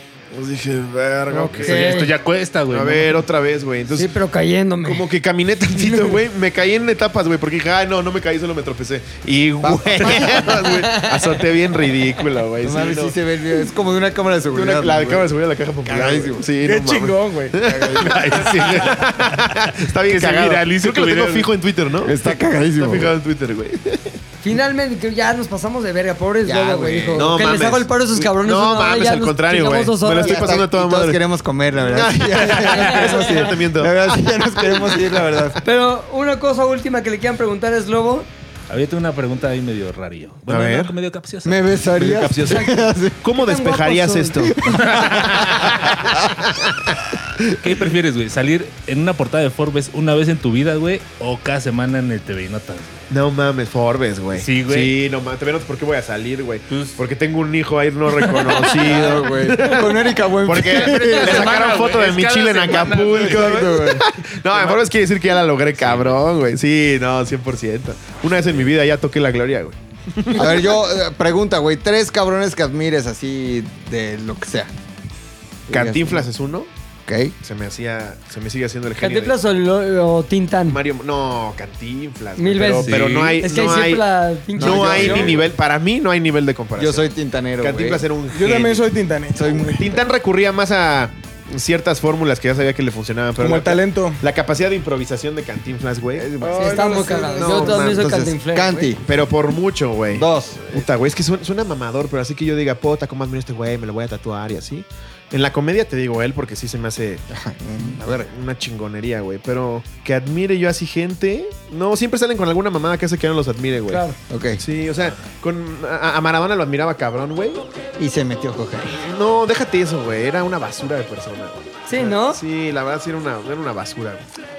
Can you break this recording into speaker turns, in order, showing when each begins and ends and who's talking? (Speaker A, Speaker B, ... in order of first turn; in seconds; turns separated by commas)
Speaker A: 0.3-2.1, Speaker B: 1.3-2.1, Speaker C: 1.6-3.2, Speaker A: 2.7-4.1, Speaker B: 3.9-5.1, Speaker A: 4.8-13.1, Speaker B: 5.8-6.2, Speaker D: 9.6-10.6, Speaker B: 10.4-11.2, Speaker D: 12.6-15.3, Speaker A: 14.5-24.2, Speaker D: 15.8-16.5, Speaker E: 16.6-17.6, Speaker D: 17.5-18.2, Speaker C: 18.0-21.5, Speaker D: 22.0-23.1, Speaker B: 24.4-30.6, Speaker D: 26.4-27.4, Speaker A: 27.1-31.2, Speaker D: 30.1-35.6, Speaker A: 31.9-35.5, Speaker B: 35.6-38.3, Speaker C: 38.7-41.7, Speaker A: 40.5-40.9, Speaker D: 41.4-43.2, Speaker A: 41.9-47.5, Speaker B: 42.5-42.7, Speaker B: 43.3-44.5, Speaker D: 44.6-45.4, Speaker C: 44.8-46.2, Speaker C: 47.6-53.0, Speaker A: 53.1-70.7, Speaker C: 54.3-54.9, Speaker C: 56.7-57.0, Speaker D: 58.6-61.6, Speaker C: 60.5-63.7, Speaker D: 63.2-64.0, Speaker C: 64.5-64.8, Speaker C: 65.8-66.2, Speaker D: 70.3-74.7, Speaker D: 75.7-76.3, Speaker A: 75.7-76.7, Speaker D: 77.0-77.3, Speaker A: 77.4-79.4, Speaker B: 79.0-80.8, Speaker A: 80.7-84.0, Speaker B: 82.4-85.3, Speaker C: 82.8-83.4, Speaker A: 84.5-87.1, Speaker D: 84.6-85.4, Speaker D: 86.8-88.0, Speaker A: 87.6-88.8, Speaker E: 88.3-89.8, Speaker D: 89.3-90.0, Speaker A: 89.8-96.3, Speaker E: 93.4-94.2, Speaker D: 96.1-99.0, Speaker E: 96.4-97.4, Speaker B: 96.5-98.9, Speaker A: 97.3-98.1, Speaker A: 99.0-107.2, Speaker D: 100.1-100.8, Speaker D: 107.3-108.3, Speaker A: 108.2-114.0, Speaker B: 113.9-114.2, Speaker D: 114.3-114.6, Speaker A: 114.6-117.6, Speaker D: 118.0-119.0, Speaker A: 118.9-124.2, Speaker B: 121.8-122.4